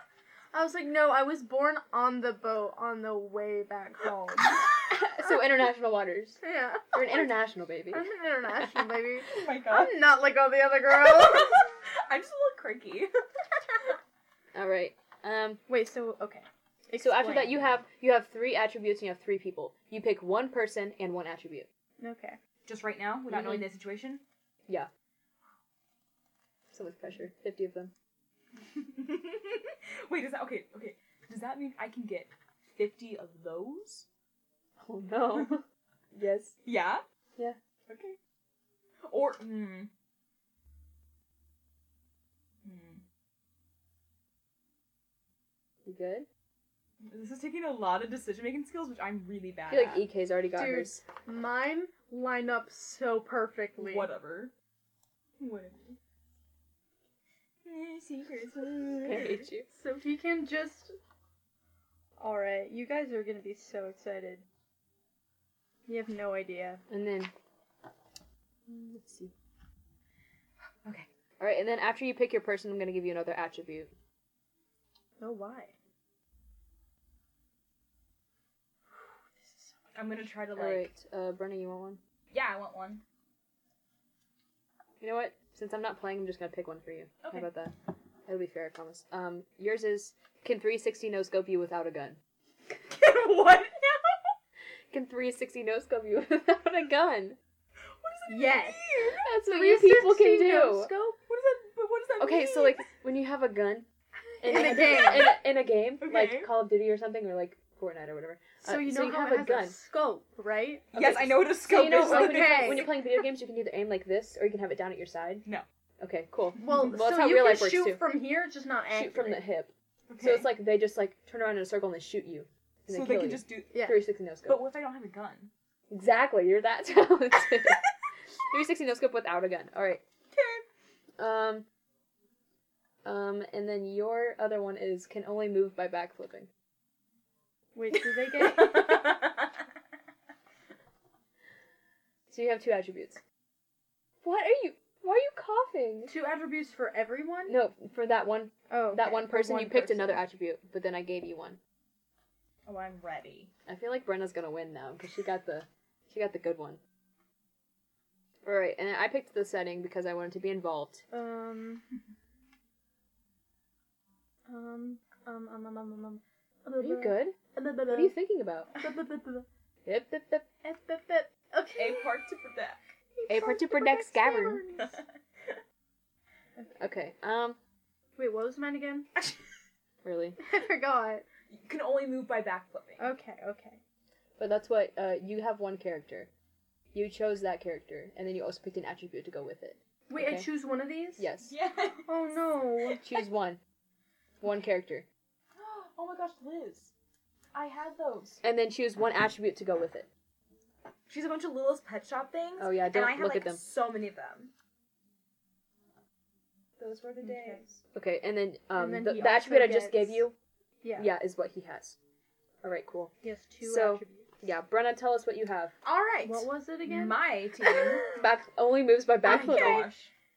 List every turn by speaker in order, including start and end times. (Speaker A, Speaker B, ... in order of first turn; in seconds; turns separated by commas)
Speaker A: 0.5-4.7, Speaker B: 4.8-6.4, Speaker A: 6.4-7.3, Speaker B: 6.9-8.1, Speaker A: 7.9-11.7, Speaker C: 9.3-10.0, Speaker C: 11.0-13.1, Speaker B: 14.5-15.6, Speaker A: 15.7-17.7, Speaker B: 17.0-21.7, Speaker A: 22.0-22.4, Speaker C: 22.7-24.2, Speaker B: 23.3-23.7, Speaker B: 26.7-27.9, Speaker C: 28.7-34.1, Speaker B: 34.8-36.5, Speaker C: 36.6-37.0, Speaker C: 37.9-38.2, Speaker C: 39.1-39.9, Speaker C: 42.6-43.0, Speaker B: 45.9-46.3, Speaker C: 47.0-50.0, Speaker B: 49.7-51.0, Speaker A: 50.5-54.1, Speaker C: 53.8-54.5, Speaker C: 55.4-56.0, Speaker C: 57.6-59.4, Speaker B: 59.0-59.7, Speaker A: 59.1-61.0, Speaker A: 62.2-64.5, Speaker A: 65.9-66.8, Speaker B: 66.9-67.3, Speaker B: 68.7-69.3, Speaker B: 71.4-73.9, Speaker A: 75.2-75.8, Speaker A: 79.4-79.7, Speaker C: 80.0-80.9, Speaker B: 80.6-82.0, Speaker C: 82.3-83.0, Speaker B: 85.0-87.7, Speaker C: 87.2-87.5, Speaker B: 88.3-92.2, Speaker C: 92.9-94.0, Speaker B: 94.9-97.4, Speaker C: 98.0-99.2, Speaker A: 98.3-101.2, Speaker B: 99.2-100.9, Speaker C: 101.2-102.9, Speaker B: 102.2-103.9, Speaker A: 104.4-105.4, Speaker B: 104.4-109.8, Speaker C: 104.5-105.4, Speaker C: 106.0-106.5, Speaker A: 108.6-112.9, Speaker C: 110.9-113.1, Speaker B: 111.7-115.5, Speaker B: 116.0-118.0, Speaker A: 116.6-119.5, Speaker B: 118.9-124.6, Speaker C: 120.1-120.5, Speaker C: 122.9-123.8, Speaker A: 123.7-124.0, Speaker C: 124.5-125.5, Speaker B: 125.9-127.8, Speaker B: 128.5-130.0, Speaker C: 130.3-130.6, Speaker B: 131.2-131.7, Speaker B: 133.1-136.5, Speaker A: 137.8-139.2, Speaker C: 138.3-139.5, Speaker B: 142.3-143.2, Speaker B: 144.2-146.1, Speaker A: 146.1-147.6, Speaker B: 147.5-151.6, Speaker A: 148.7-149.6, Speaker C: 149.3-150.2, Speaker C: 152.7-153.5, Speaker B: 153.7-156.8, Speaker B: 158.4-161.0, Speaker A: 161.1-161.9, Speaker A: 164.5-168.2, Speaker B: 166.8-167.4, Speaker B: 167.9-168.8, Speaker A: 168.8-169.5, Speaker B: 169.8-170.5, Speaker A: 170.6-172.2, Speaker C: 171.8-172.8, Speaker A: 173.2-175.0, Speaker B: 173.3-174.6, Speaker C: 174.8-175.6, Speaker A: 176.6-176.8, Speaker B: 176.8-177.6, Speaker A: 178.2-179.1, Speaker B: 180.0-180.4, Speaker A: 180.4-181.2, Speaker C: 181.5-183.0, Speaker A: 183.0-183.8, Speaker B: 184.4-186.3, Speaker B: 186.9-190.5, Speaker A: 190.1-191.3, Speaker B: 191.2-191.5, Speaker C: 191.4-192.1, Speaker A: 192.1-193.1, Speaker B: 193.0-193.6, Speaker B: 194.4-195.1, Speaker C: 195.6-196.9, Speaker C: 197.5-198.4, Speaker B: 198.4-200.1, Speaker C: 201.1-204.5, Speaker B: 202.6-203.6, Speaker C: 206.8-207.8, Speaker A: 207.2-207.6, Speaker B: 207.9-210.3, Speaker A: 208.8-210.2, Speaker A: 210.8-211.1, Speaker B: 211.0-212.0, Speaker B: 212.6-215.7, Speaker A: 213.2-214.3, Speaker C: 215.8-218.1, Speaker A: 216.2-218.2, Speaker B: 218.1-219.9, Speaker C: 219.2-220.1, Speaker A: 219.3-219.9